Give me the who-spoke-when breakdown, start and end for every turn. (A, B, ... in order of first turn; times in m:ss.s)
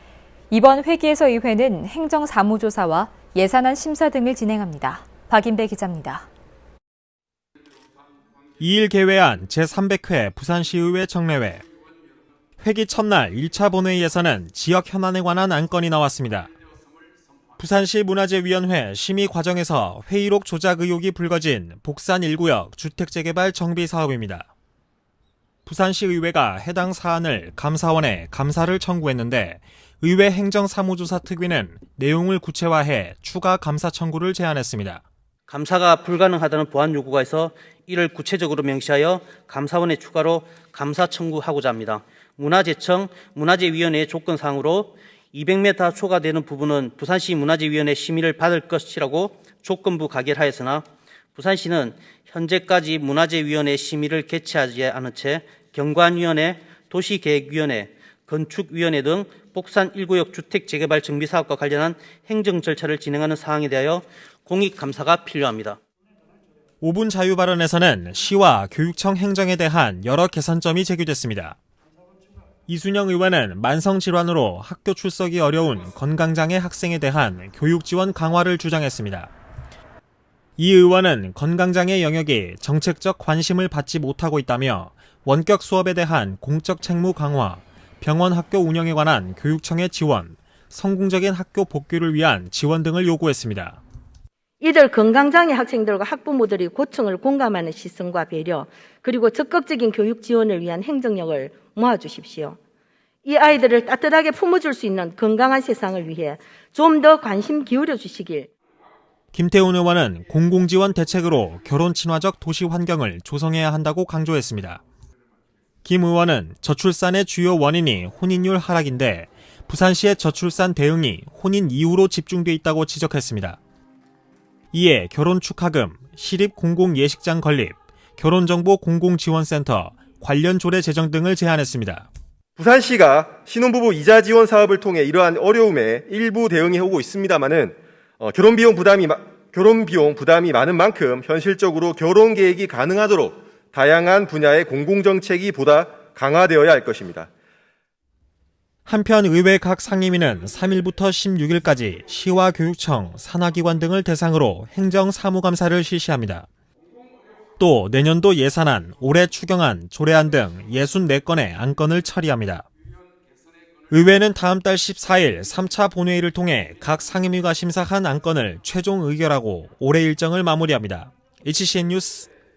0:00.5-0:06.3 A
0:08.6-0:11.6 B
0:12.6-0:16.5 B
0:17.6-0:24.5 B
0:25.6-0:35.0 B
0:35.5-1:05.8 C
1:06.8-1:11.6 B
1:12.7-1:19.3 B
1:20.6-1:33.8 B
1:34.6-1:42.6 D
1:43.2-1:48.5 D
1:49.3-1:54.8 B
1:55.8-2:03.6 B
2:04.7-2:12.1 B
2:12.6-2:27.3 E
2:28.8-2:36.5 B
2:37.6-2:42.7 B
2:43.9-2:52.3 B